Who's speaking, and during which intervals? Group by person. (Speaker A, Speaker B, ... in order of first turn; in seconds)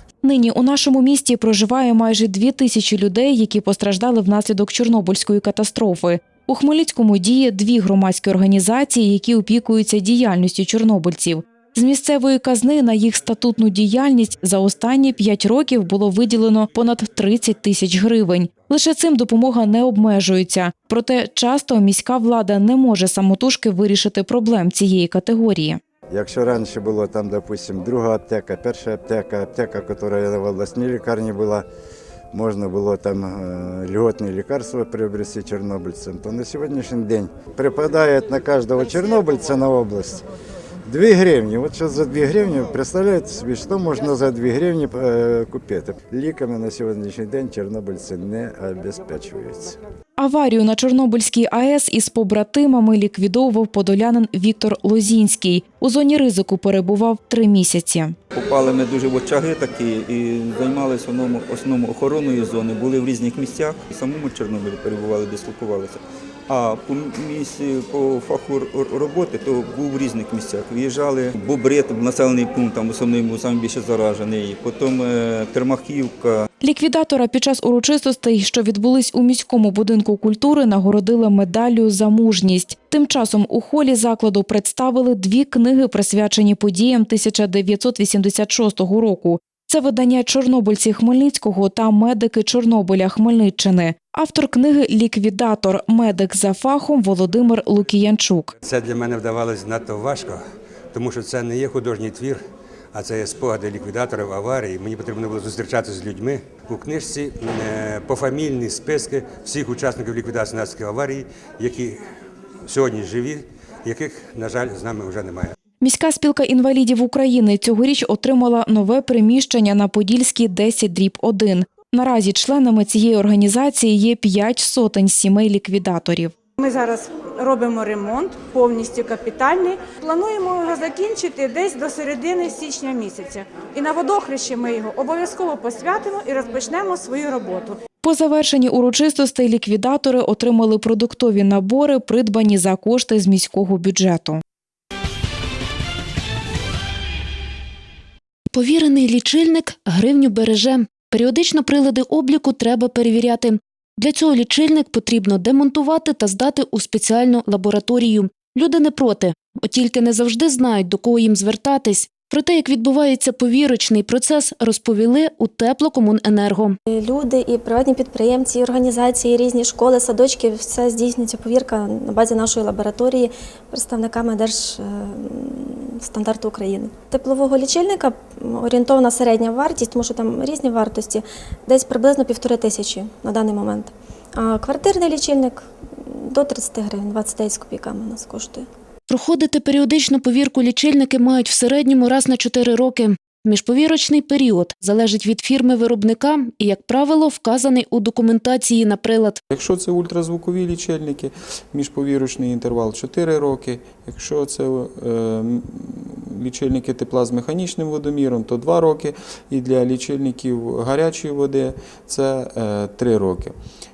Speaker A: 0.2-25.8, 50.2-58.1, 76.6-98.5, 115.8-126.3, 138.0-144.4
Speaker B: 26.1-31.6, 32.3-40.2, 40.9-49.8
Speaker C: 58.3-76.5
Speaker D: 98.7-100.3, 100.9-102.3, 103.0-111.9, 112.7-113.3, 113.9-115.4
Speaker E: 126.6-137.8
Speaker F: 148.5-166.8, 189.1-199.4
Speaker G: 166.9-188.7
Speaker H: 199.5-213.5